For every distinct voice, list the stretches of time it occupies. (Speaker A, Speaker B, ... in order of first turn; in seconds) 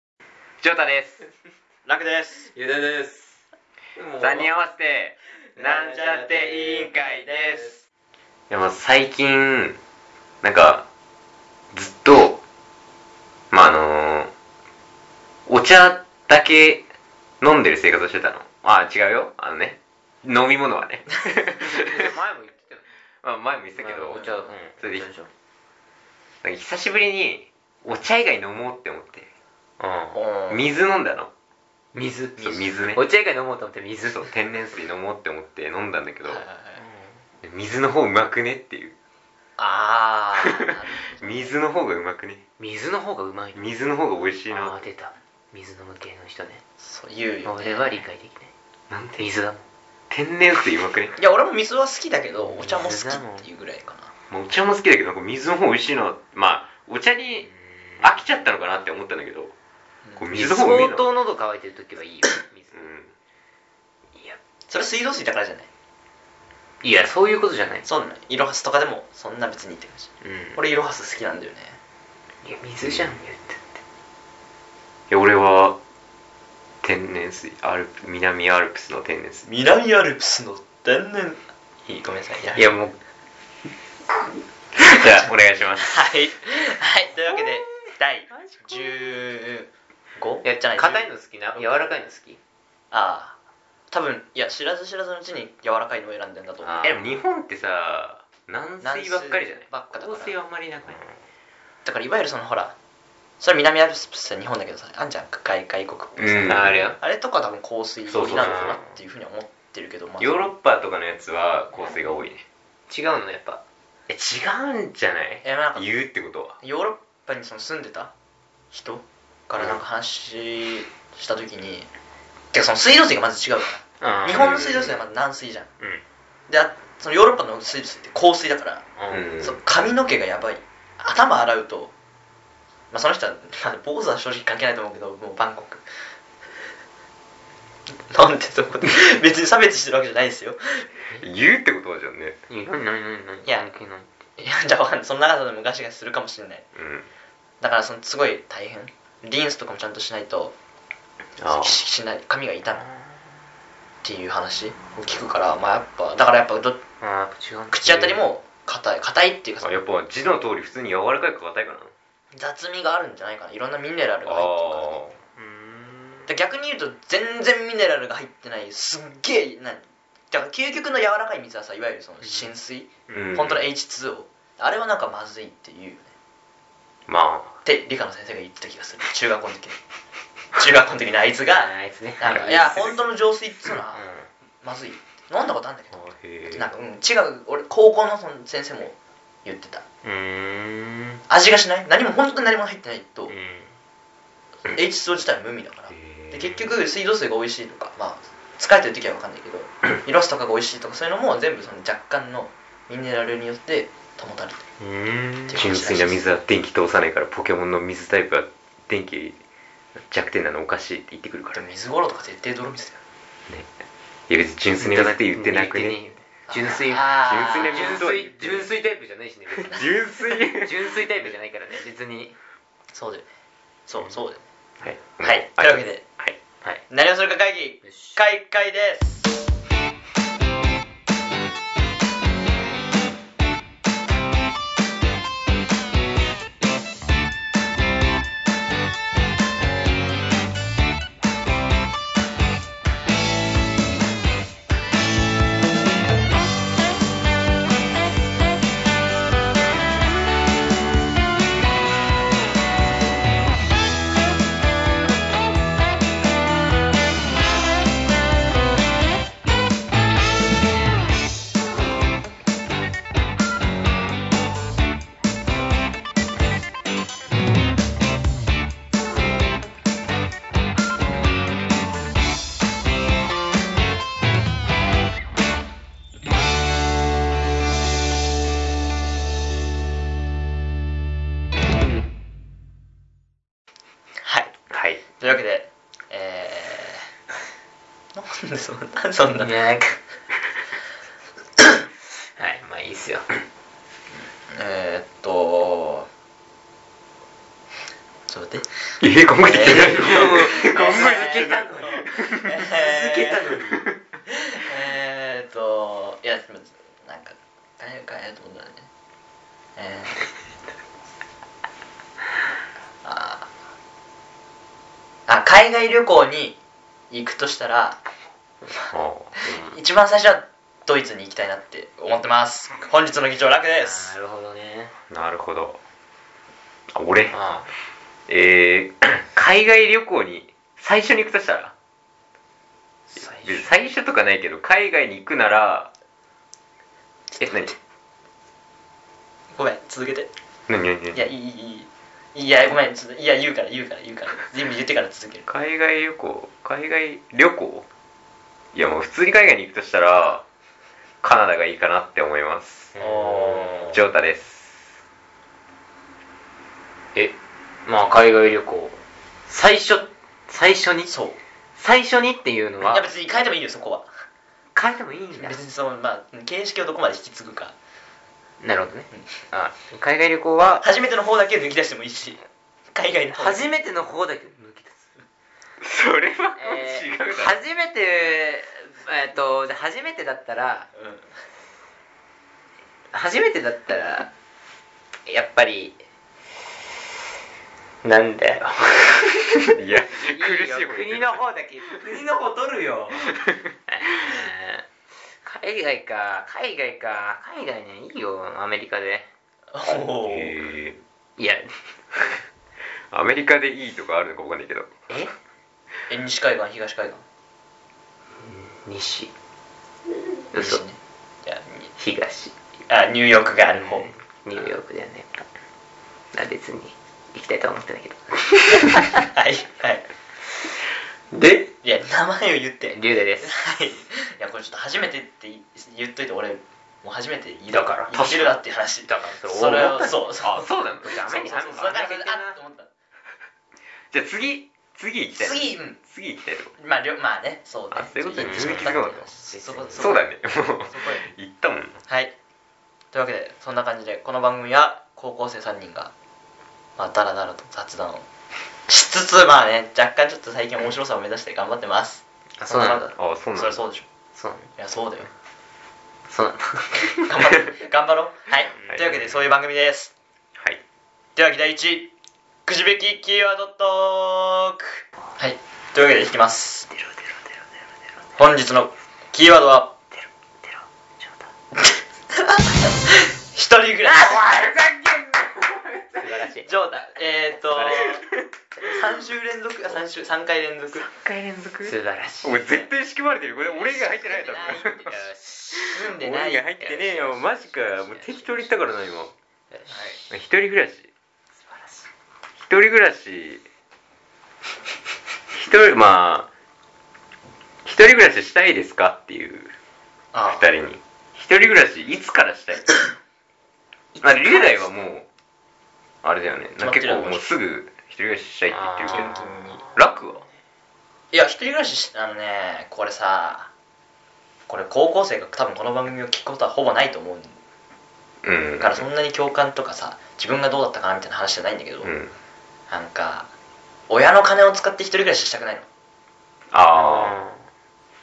Speaker A: 0.6-1.2, 4.2-7.2, 8.5-9.8, 10.4-10.8, 11.7-12.4, 13.5-14.3, 15.5-16.9, 17.4-22.1, 23.2-25.1, 26.4-29.3, 30.5-31.3, 32.4-33.0, 34.1-36.4, 37.4-38.9, 41.1-42.4, 43.5-44.9, 48.9-49.3, 50.1-51.1, 54.3-57.5, 58.0-59.5, 60.1-61.1, 62.7-63.1, 72.8-73.1, 75.1-75.8, 76.8-79.5, 84.8-86.0, 96.8-101.0, 106.2-106.9, 108.1-108.8, 110.2-112.4, 114.1-116.6, 124.3-124.9, 129.1-129.6, 141.2-142.4, 146.7-147.1, 151.4-151.8, 159.6-161.9, 164.2-165.2, 173.1-173.6, 177.1-177.6, 185.9-186.7, 195.9-196.4, 205.6-209.4, 209.9-211.7, 214.3-216.0, 217.2-218.7, 219.6-220.9, 224.8-226.4, 284.7-285.0, 299.0-302.7, 303.5-304.0, 318.9-319.8, 325.1-325.8, 326.9-327.4, 328.3-331.7, 333.4-335.9, 337.4-337.7, 340.7-341.3, 345.5-347.9, 348.7-350.4, 351.2-352.9, 353.9-354.8, 375.8-377.6, 389.6-391.4, 393.2-393.7, 400.2-401.0, 403.1-405.1, 421.3-421.6, 428.2-428.4, 430.4-431.9, 434.1-436.7, 437.9-439.3, 439.9-442.0, 453.1-453.8, 474.4-476.2, 480.9-485.1, 485.7-489.3, 490.3-491.1, 492.6-493.6, 495.5-496.5, 497.8-499.7, 500.5-503.0, 504.2-505.3, 506.2-509.4, 509.9-510.4, 518.4-519.0, 522.0-522.3, 526.7-527.4
Speaker B: 1.9-2.5, 5.6-7.7, 30.1-30.7, 36.2-36.8, 39.6-41.5, 46.8-48.0, 51.1-54.1, 64.7-65.7, 67.8-71.8, 79.5-82.7, 84.8-85.3, 85.8-91.7, 92.9-93.3, 93.9-96.9, 98.8-100.4, 101.8-102.7, 103.4-110.5, 115.4-115.9, 116.6-118.1, 118.7-121.9, 122.5-125.7, 126.5-128.8, 129.4-131.9, 132.9-135.8, 138.1-140.9, 144.4-146.7, 147.6-150.5, 151.4-152.9, 154.0-156.8, 157.7-159.8, 162.3-165.0, 166.3-176.1, 177.6-179.8, 180.5-184.1, 184.6-189.8, 191.3-193.3, 194.6-204.6, 205.5-206.2, 211.5-213.0, 216.5-218.0, 222.9-223.2, 223.9-224.4, 225.2-226.0, 226.9-229.4, 284.2-284.5, 285.2-287.1, 288.1-289.6, 294.1-296.1, 298.3-298.7, 299.4-303.6, 304.3-308.9, 309.8-310.2, 313.0-313.5, 315.3-316.6, 317.1-318.0, 318.7-324.1, 337.3-337.7, 339.5-340.3, 341.1-345.5, 361.1-361.4, 362.8-364.1, 365.4-367.7, 370.8-372.4, 372.9-373.7, 380.9-381.2, 399.7-400.6, 406.1-407.2, 410.5-411.8, 412.9-414.1, 418.7-420.0, 421.8-430.7, 431.2-432.9, 435.3-436.0, 436.8-440.2, 440.8-441.3, 442.1-442.3, 443.1-446.1, 447.0-448.2, 448.9-454.1, 454.8-455.3, 457.2-460.1, 461.4-462.1, 462.6-466.9, 468.4-470.0, 471.9-474.4, 476.6-478.2, 478.8-481.1, 484.2-485.2, 485.8-486.7, 489.9-490.2, 500.3-500.7, 506.8-507.5, 509.1-509.8, 511.3-513.7, 514.7-517.6, 518.8-522.1, 522.9-523.5, 524.1-525.9
Speaker C: 2.5-3.4, 4.0-4.5, 5.5-7.7, 21.6-22.8, 23.8-25.3, 29.8-30.2, 31.9-34.3, 36.8-37.2, 42.6-43.6, 44.5-46.6, 47.4-48.5, 49.2-49.6, 52.5-53.5, 57.4-58.1, 60.3-62.9, 66.8-67.9, 70.2-70.6, 72.4-73.8, 82.5-82.9, 88.4-89.0, 90.4-92.4, 96.6-97.0, 106.5-107.0, 108.2-108.9, 112.9-113.6, 124.0-124.9, 129.0-129.3, 142.5-144.1, 152.8-153.2, 157.0-158.2, 165.3-166.3, 181.5-183.0, 183.9-184.3, 190.0-191.2, 193.3-193.7, 204.8-205.6, 214.8-219.9, 220.5-222.3, 227.8-228.2, 289.4-290.0, 292.4-293.2, 299.6-303.9, 323.8-324.9, 327.3-327.7, 333.1-333.7, 352.9-354.0, 357.1-361.1, 361.8-363.1, 364.7-365.6, 368.6-370.8, 373.3-375.1, 376.6-380.9, 383.1-384.3, 385.2-386.0, 388.0-393.3, 393.9-394.8, 395.4-399.3, 401.4-402.3, 408.4-409.3, 410.5-410.8, 412.0-412.5, 413.8-415.4, 416.3-419.2, 422.9-423.6, 427.7-428.5, 429.1-430.2, 431.0-432.6, 438.4-440.1, 452.6-453.1, 454.3-454.7, 456.3-457.3, 466.9-467.5, 470.1-471.5, 474.1-475.1, 476.1-476.7, 477.7-478.3, 481.8-482.8, 483.9-486.1, 486.8-488.9, 489.7-490.2, 491.7-492.0, 504.1-504.8, 508.7-510.4, 526.9-527.7